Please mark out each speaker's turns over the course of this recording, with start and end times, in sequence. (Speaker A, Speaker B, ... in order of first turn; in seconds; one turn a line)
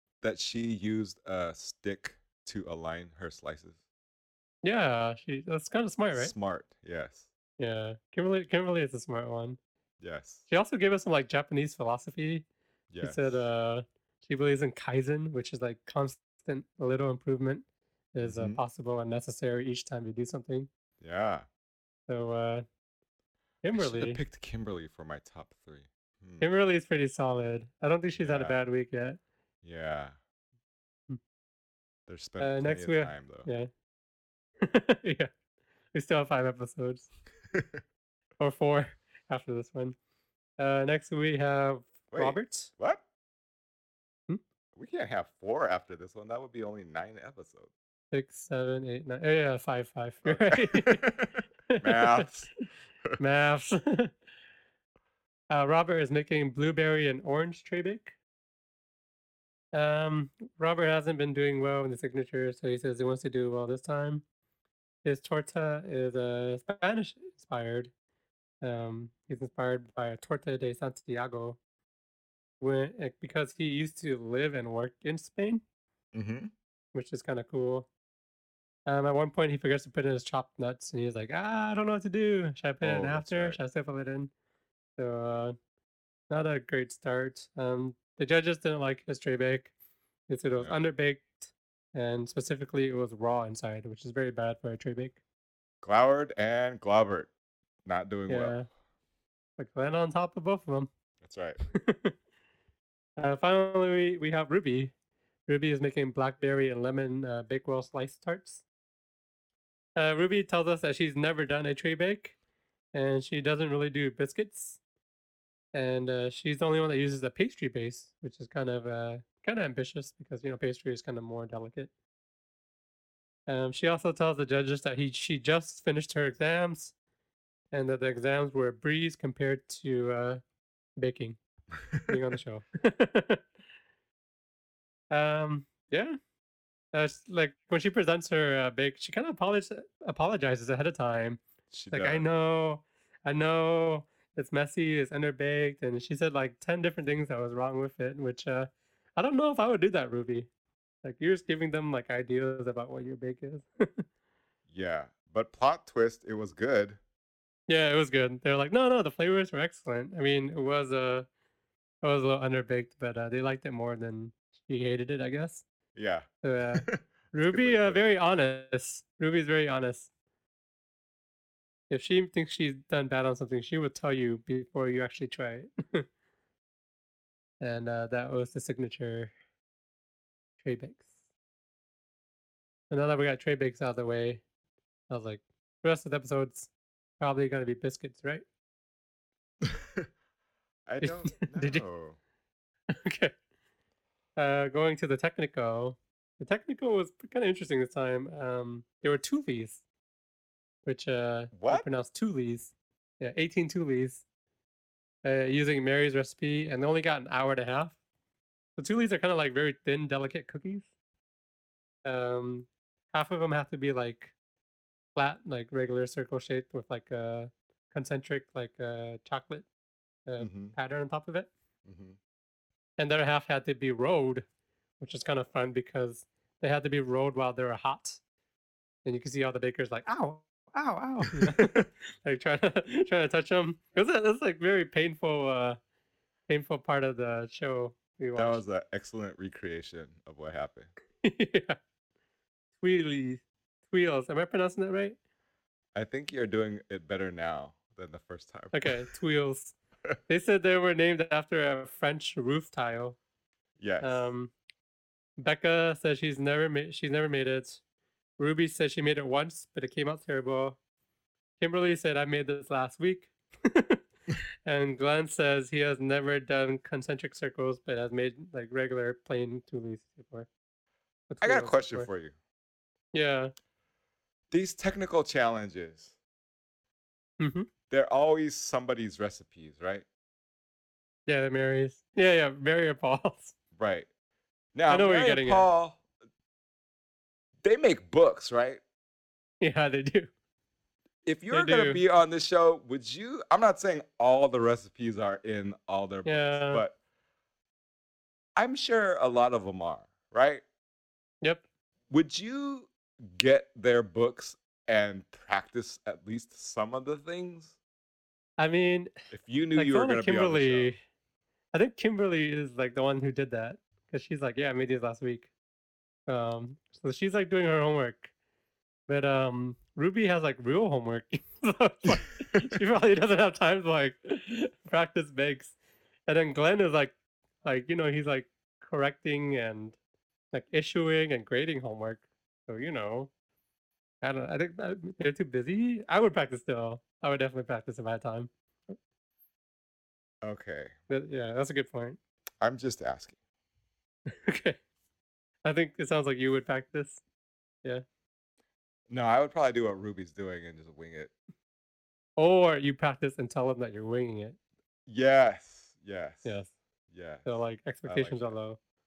Speaker A: 0.2-3.8
Speaker B: 4.6-6.3
Speaker A: 6.1-7.3
Speaker B: 7.6-9.6
Speaker A: 10.0-10.4
Speaker B: 10.5-12.4
Speaker A: 12.9-13.5
Speaker B: 13.0-20.7
Speaker A: 18.2-18.6
Speaker A: 21.0-21.4
Speaker B: 22.1-22.6
Speaker B: 23.6-24.2
Speaker A: 23.7-26.4
Speaker B: 26.4-29.2
Speaker A: 28.2-28.5
Speaker A: 29.6-30.1
Speaker A: 32.1-33.5
Speaker B: 32.4-33.7
Speaker B: 34.6-35.3
Speaker B: 35.9-37.1
Speaker A: 37.5-37.8
Speaker B: 38.4-40.0
Speaker B: 40.6-42.7
Speaker A: 42.1-43.0
Speaker A: 44.7-47.7
Speaker B: 48.1-51.1
Speaker A: 50.2-52.5
Speaker B: 51.7-52.4
Speaker B: 53.2-54.1
Speaker B: 55.5-58.1
Speaker B: 59.7-64.2
Speaker B: 65.0-67.9
Speaker B: 68.6-71.6
Speaker B: 72.6-75.6
Speaker A: 76.1-76.5
Speaker B: 76.9-77.9
Speaker B: 78.8-84.3
Speaker A: 82.8-83.6
Speaker B: 85.0-85.5
Speaker B: 86.3-89.7
Speaker B: 90.3-95.2
Speaker A: 95.8-97.3
Speaker A: 97.8-98.6
Speaker B: 98.3-98.7
Speaker B: 99.6-100.9
Speaker A: 101.2-101.6
Speaker B: 101.7-102.1
Speaker B: 103.2-104.9
Speaker B: 105.5-108.6
Speaker B: 110.0-112.3
Speaker B: 112.9-114.8
Speaker B: 115.7-121.9
Speaker B: 123.5-126.9
Speaker B: 127.7-130.4
Speaker B: 131.0-131.4
Speaker A: 131.8-132.2
Speaker B: 132.1-133.4
Speaker B: 135.1-136.2
Speaker B: 136.9-150.5
Speaker A: 141.7-142.2
Speaker B: 151.0-154.1
Speaker A: 154.7-157.0
Speaker B: 157.7-161.3
Speaker B: 162.0-165.6
Speaker A: 165.9-168.0
Speaker B: 166.4-170.1
Speaker B: 171.9-176.0
Speaker B: 177.6-179.3
Speaker B: 180.6-181.1
Speaker B: 182.9-184.4
Speaker B: 185.1-188.4
Speaker A: 189.6-190.1
Speaker A: 190.8-192.2
Speaker B: 191.0-191.8
Speaker B: 193.0-193.3
Speaker B: 194.3-199.8
Speaker B: 200.8-204.2
Speaker A: 201.5-201.8
Speaker B: 205.2-207.9
Speaker B: 208.8-210.9
Speaker B: 212.0-214.3
Speaker B: 215.1-219.7
Speaker B: 220.2-221.5
Speaker A: 220.4-220.7
Speaker A: 221.8-222.2
Speaker B: 223.0-224.4
Speaker B: 225.0-228.2
Speaker B: 229.0-235.8
Speaker A: 231.4-231.8
Speaker B: 236.5-238.6
Speaker A: 238.3-240.9
Speaker B: 241.2-241.8
Speaker B: 242.8-245.2
Speaker A: 245.9-249.0
Speaker B: 248.7-249.7
Speaker B: 250.3-253.2
Speaker A: 253.8-254.3
Speaker B: 254.0-254.5
Speaker B: 255.4-257.8
Speaker B: 258.4-260.8
Speaker B: 261.6-264.0
Speaker B: 264.6-270.5
Speaker B: 271.3-272.1
Speaker A: 271.4-272.3
Speaker B: 273.1-273.5
Speaker A: 274.5-276.1
Speaker B: 277.4-277.7
Speaker A: 277.9-280.1
Speaker B: 281.3-283.5
Speaker A: 283.8-284.1
Speaker A: 284.7-286.0
Speaker B: 284.9-285.7
Speaker A: 287.6-288.8
Speaker B: 289.6-290.3
Speaker A: 291.2-296.9
Speaker B: 291.5-292.0
Speaker B: 296.2-296.8
Speaker A: 298.6-300.6
Speaker A: 302.1-307.8
Speaker B: 308.6-309.1
Speaker A: 309.3-310.9
Speaker B: 309.7-311.0
Speaker B: 311.7-315.5
Speaker B: 316.3-318.3
Speaker B: 319.1-325.7
Speaker B: 326.3-330.0
Speaker B: 330.5-333.3
Speaker B: 334.2-338.9
Speaker A: 340.4-340.9
Speaker B: 341.1-342.2
Speaker A: 342.6-343.3
Speaker B: 344.3-344.8
Speaker B: 345.6-347.2
Speaker A: 349.1-351.3
Speaker B: 352.4-354.6
Speaker A: 355.1-356.6
Speaker B: 356.4-356.7
Speaker A: 357.1-357.5
Speaker B: 357.4-358.8
Speaker A: 358.0-358.5